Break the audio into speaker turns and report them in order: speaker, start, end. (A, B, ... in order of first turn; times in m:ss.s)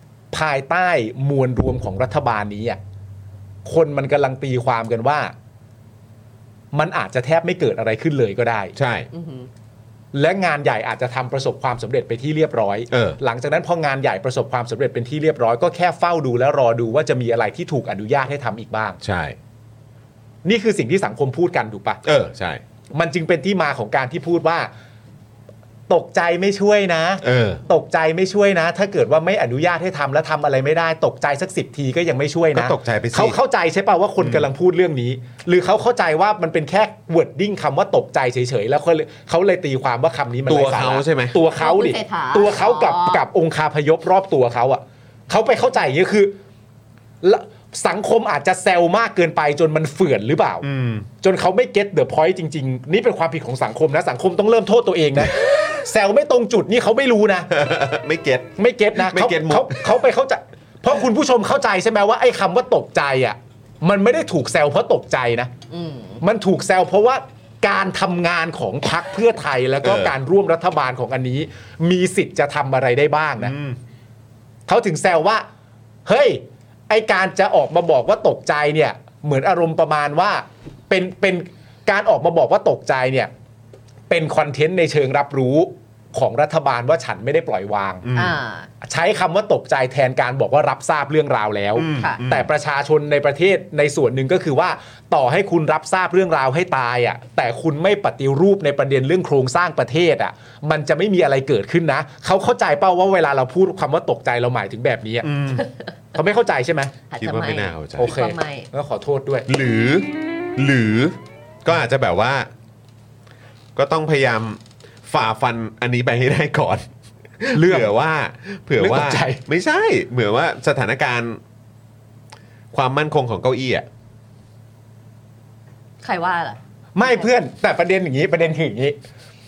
0:00.3-0:02.8 A
0:03.6-0:05.3 A
0:06.7-0:08.7 A
0:08.8-0:09.1 B
0:09.1-0:09.5 C
0:10.1-0:19.0 A
0:12.9-0:13.2 B
0:19.0-0:19.4 B
0:20.4-0:22.0 A
0:22.0-0:22.6 B
0:22.9-0:24.7 A
0:25.9-0:46.4 A
0:27.2-0:27.6 B
0:32.5-0:33.4 B
0:34.2-0:34.5 B
0:40.5-0:41.4 B
0:41.6-0:43.2 C
0:47.2-0:50.6 A
0:50.6-0:51.1 B
0:51.2-0:57.5 A
0:57.5-0:59.8 B
0:58.6-1:05.5 A
1:05.7-1:06.2 C
1:06.2-1:13.5 A
1:09.8-1:10.2 B
1:13.4-1:13.8 B
1:14.7-1:15.5 A
1:16.1-1:23.3 A
1:24.1-1:28.1 A
1:28.0-1:28.4 B
1:28.2-1:28.7 C
1:28.8-1:45.3 A
1:31.8-1:32.5 B
1:32.0-1:32.2 C
1:45.2-1:45.7 B
1:45.6-1:45.9 C
1:46.2-1:47.0 A
1:47.1-1:48.7 C
1:47.2-1:48.2 B
1:48.0-1:49.5 A
1:49.5-1:52.5 B
1:53.8-1:56.9 B
1:57.4-2:01.4 B
1:57.5-1:57.9 A
1:58.8-1:59.4 A
2:02.7-2:03.9 B
2:06.0-2:07.3 C
2:07.0-2:09.0 A